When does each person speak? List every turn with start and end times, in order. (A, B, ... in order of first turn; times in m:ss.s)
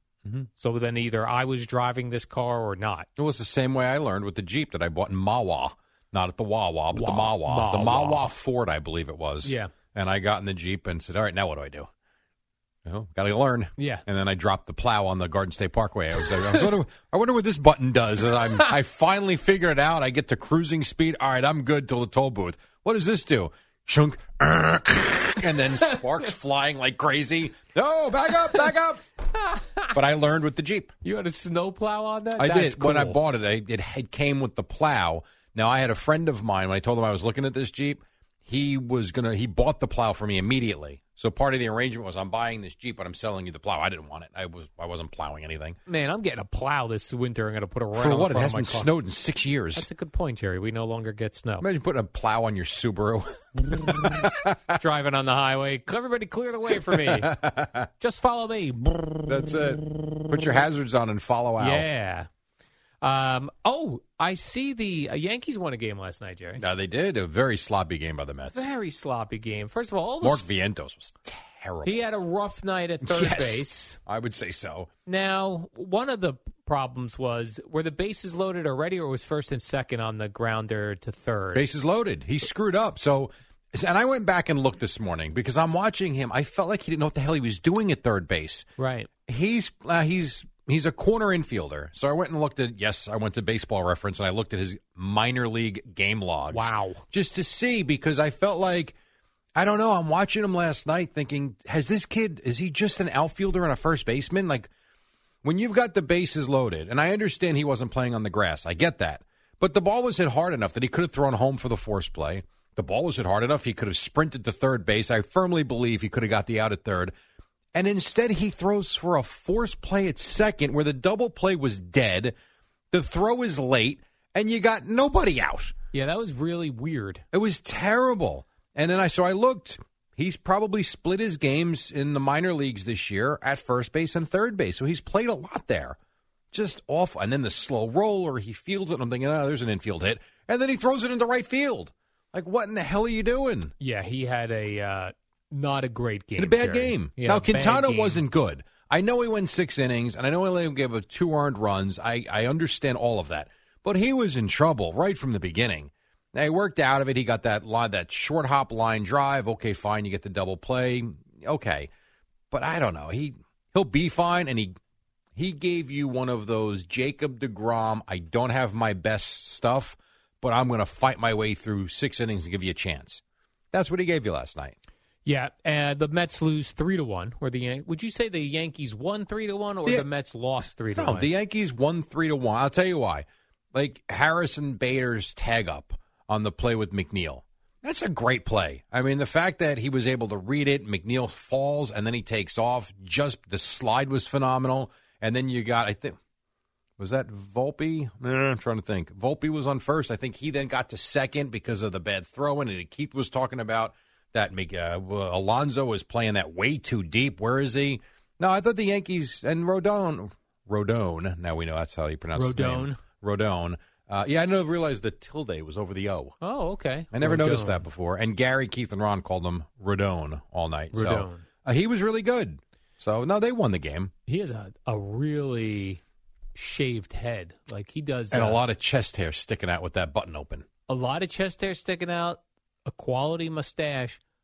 0:00.6-0:03.1 A
0:03.2-0:11.9 B
0:06.9-0:08.3 A
0:09.4-0:09.7 A
0:12.9-0:29.0 B
0:13.8-0:14.0 A
0:29.6-0:29.9 A
0:29.9-0:30.9 B
0:31.0-0:33.2 A
0:32.4-0:45.8 B
0:45.9-0:48.9 A
0:47.9-0:49.9 B
0:49.8-0:51.7 A
0:51.6-0:54.5 B
0:54.7-0:57.4 A
0:56.9-0:57.9 B
0:58.0-0:59.2 A
0:59.2-1:01.9 B
1:01.6-1:02.3 A
1:03.0-1:06.6 A
1:06.6-1:08.7 B
1:08.5-1:10.4 A
1:10.2-1:12.1 B
1:11.8-1:14.0 A
1:13.0-1:14.9 B
1:15.1-1:21.6 A
1:21.5-1:28.7 B
1:28.8-1:29.1 A
1:29.3-1:38.9 B
1:36.5-1:37.0 A
1:39.6-1:44.7 B
1:45.4-1:57.1 B
1:57.8-2:02.4 B
2:02.9-2:05.7 B
2:05.9-2:07.2 A
2:07.3-2:16.0 B
2:16.5-2:23.7 B
2:23.8-2:28.2 A
2:26.4-2:41.9 B
2:42.5-2:44.8 B
2:45.4-2:53.2 B
2:53.7-2:54.8 B
2:55.2-3:01.3 A
3:01.0-3:16.2 B
3:17.0-3:36.4 B
3:32.4-3:33.0 A
3:36.4-3:37.8 A
3:37.1-3:44.1 B
3:40.9-3:41.5 A
3:44.3-3:46.0 A
3:46.6-3:48.6 A
3:48.3-3:50.7 B
3:50.9-3:54.2 A